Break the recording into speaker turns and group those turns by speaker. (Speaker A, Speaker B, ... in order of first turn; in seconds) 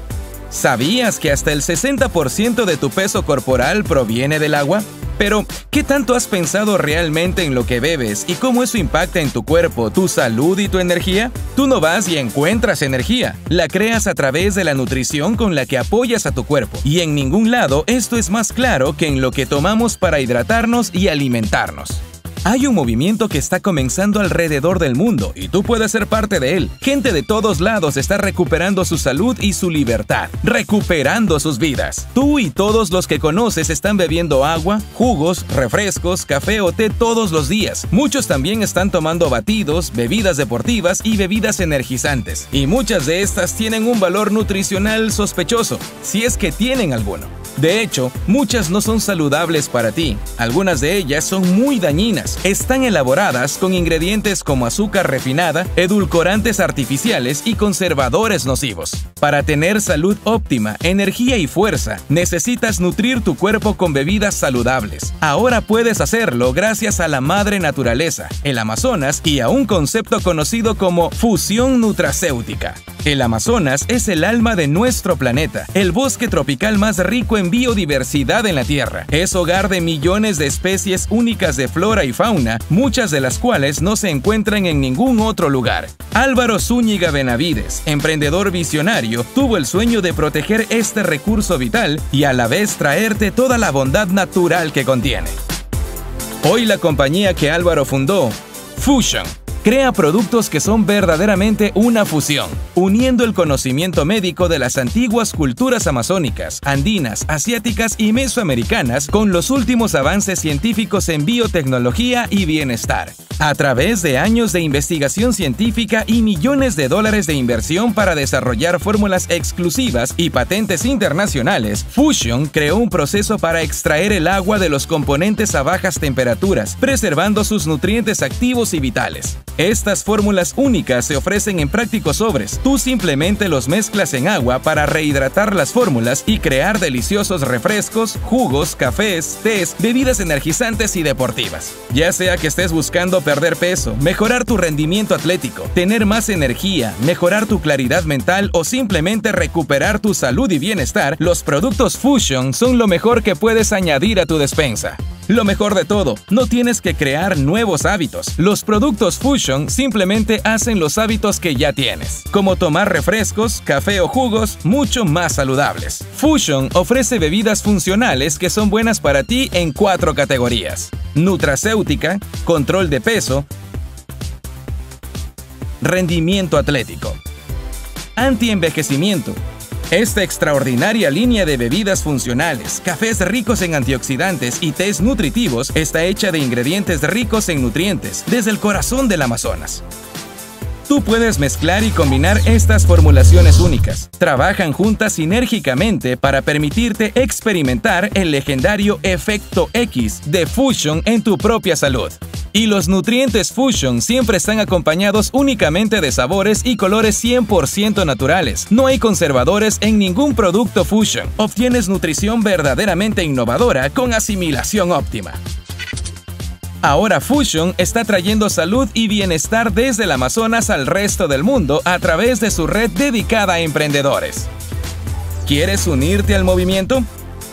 Speaker A: 0.5-95.3, 96.4-173.5, 175.8-177.2, 178.2-179.4, 179.9-189.8, 190.9-215.4, 216.8-224.5, 225.4-227.1